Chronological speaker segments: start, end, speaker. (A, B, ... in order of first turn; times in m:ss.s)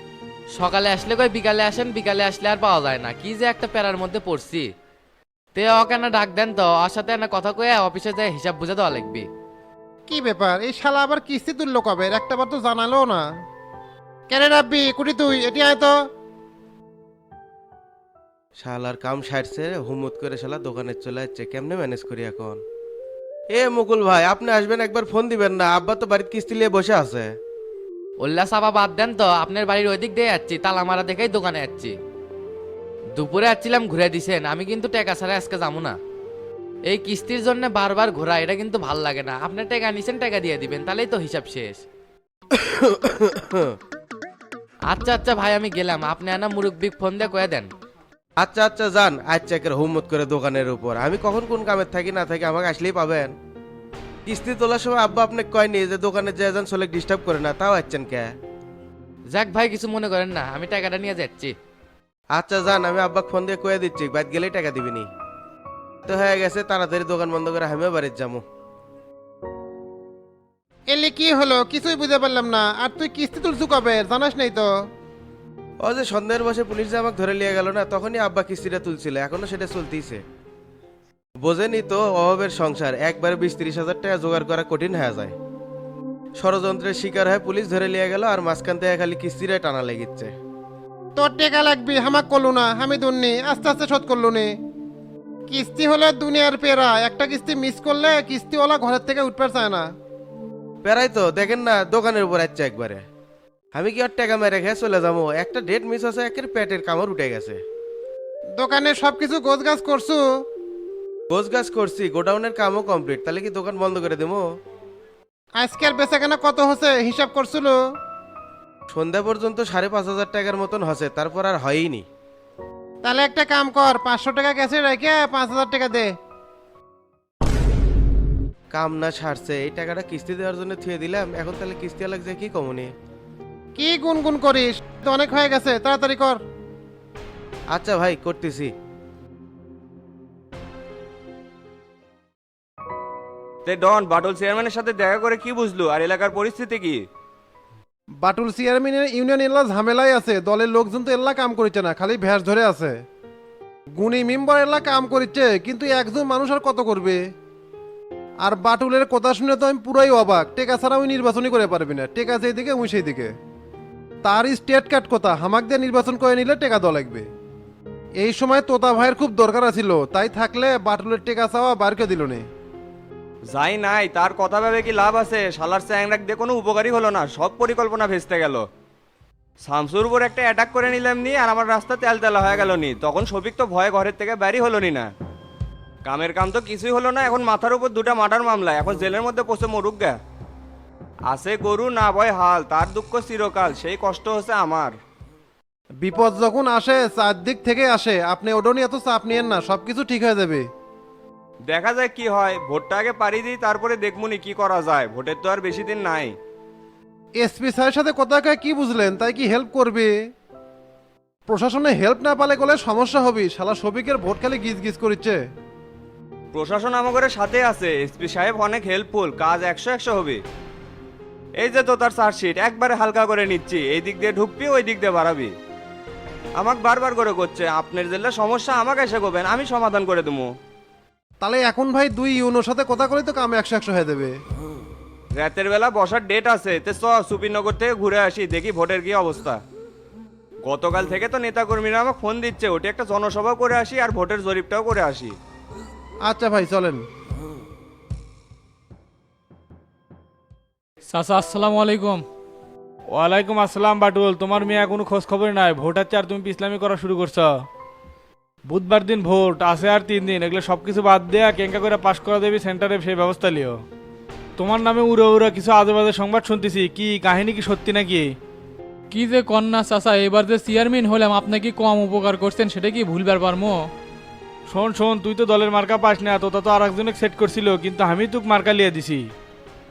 0:00.6-0:04.7 A
0:05.5-0:09.2 A
0:10.1-0:13.2 B
0:14.3-0:15.9 B
0:18.6-0:22.6 C
0:23.5-0:27.3 C
0:28.2-0:31.9 A
0:33.2-0:35.9 A
0:36.9-0:41.8 A
0:42.5-0:43.7 C
0:44.9-0:47.7 A
0:48.4-0:53.3 C
0:54.2-0:58.3 C
0:59.3-1:01.5 A
1:02.3-1:05.1 C
1:06.1-1:08.4 C
1:10.9-1:14.7 B
1:15.8-1:20.2 C
1:21.4-1:25.3 C
1:26.4-1:30.3 C
1:31.2-1:34.5 B
1:35.5-1:39.8 B
1:40.8-1:43.0 C
1:43.7-1:47.6 C
1:48.6-1:50.2 B
1:51.3-1:54.4 C
1:55.6-1:57.8 B
1:58.9-2:02.0 C
2:03.0-2:06.1 B
2:08.7-2:12.9 C
2:13.8-2:16.4 B
2:17.7-2:18.7 C
2:23.6-2:27.0 D
2:28.2-2:33.0 B
2:34.0-2:37.2 B
2:38.4-2:43.3 B
2:44.2-2:47.2 B
2:48.2-2:52.4 B
2:53.5-2:58.6 D
2:59.7-3:05.1 D
3:06.0-3:10.2 D
3:11.3-3:14.9 D
3:16.0-3:20.6 B
3:21.7-3:26.3 D
3:27.4-3:30.1 B
3:31.5-3:35.4 B
3:36.5-3:40.4 D
3:41.6-3:45.5 D
3:46.6-3:50.5 D
3:51.4-3:54.3 B
3:55.4-3:59.6 D
4:00.7-4:05.3 D
4:06.2-4:07.0 B
4:11.1-4:12.2 E
4:13.1-4:17.5 F
4:18.7-4:23.8 F
4:24.6-4:28.3 F
4:29.1-4:33.8 E
4:34.7-4:39.2 F